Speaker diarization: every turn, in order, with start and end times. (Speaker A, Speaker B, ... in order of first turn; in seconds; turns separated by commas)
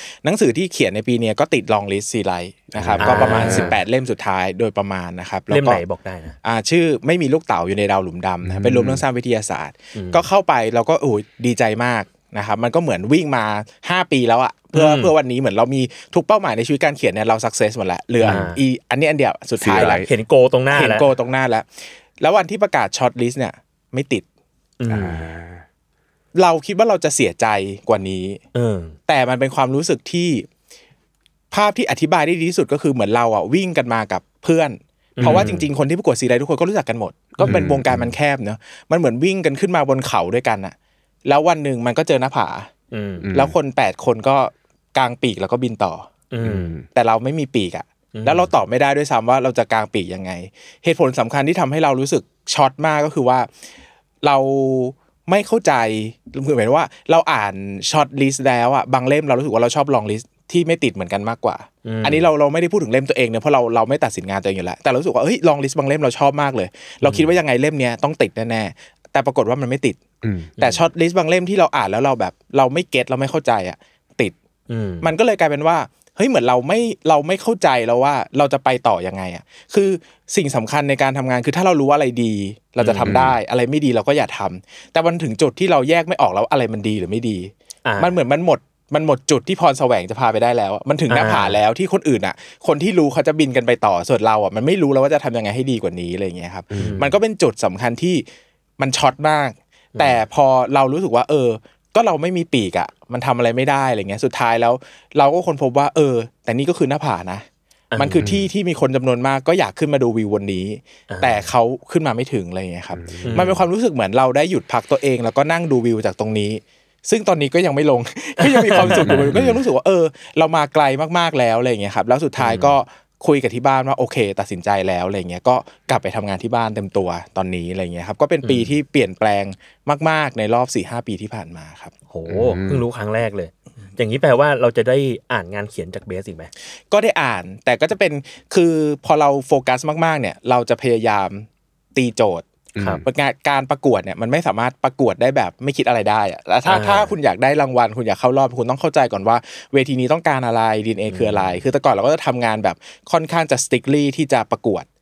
Speaker A: 0.2-5.8, Speaker B: 2.8-3.8, Speaker C: 3.0-3.8, Speaker C: 5.5-6.3, Speaker A: 6.4-20.0, Speaker B: 8.4-9.0, Speaker C: 9.9-10.2, Speaker C: 14.7-15.1, Speaker B: 18.2-18.5, Speaker C: 18.2-18.6, Speaker B: 19.6-20.1, Speaker C: 19.6-21.1, Speaker A: 20.7-24.2, Speaker C: 24.8-25.2, Speaker B: 24.9-25.6, Speaker A: 26.3-28.4, Speaker C: 28.5-28.9, Speaker A: 29.1-30.5, Speaker A: 31.5-42.7, Speaker C: 35.2-35.7, Speaker B: 35.2-35.5, Speaker C: 37.4-37.6, Speaker B: 37.4-38.1, Speaker C: 42.9-43.3, Speaker B: 43.2-43.5, Speaker A: 43.3-46.1, Speaker C: 46.3-46.7, Speaker B: 46.4-46.8, Speaker A: 46.9-53.5, Speaker C: 48.1-48.5, Speaker A: 54.2-70.0, Speaker C: 61.8-62.3, Speaker C: 67.0-67.3, Speaker B: 70.2-70.5, Speaker C: 70.6-70.8, Speaker A: 70.6-74.3, Speaker C: 74.7-75.1, Speaker A: 75.0-98.2, Speaker C: 82.8-83.2, Speaker B: 83.0-83.4, Speaker C: 87.8-88.1, Speaker C: 91.1-91.6, Speaker C: 96.8-97.1, Speaker A: 98.8-107.4, Speaker C: 99.9-100.2, Speaker C: 107.9-108.4, Speaker A: 108.0-131.9, Speaker B: 108.2-108.5, Speaker C: 111.1-111.5, Speaker B: 113.0-113.6, Speaker C: 113.2-113.6, Speaker C: 118.4-119.3, Speaker B: 118.8-119.6, Speaker C: 122.4-122.8, Speaker C: 128.4-128.7, Speaker C: 132.1-136.5, Speaker B: 132.3-132.8, Speaker A: 136.9-142.4, Speaker B: 142.8-143.0, Speaker A: 143.0-154.9, Speaker C: 146.7-147.1, Speaker C: 151.1-151.6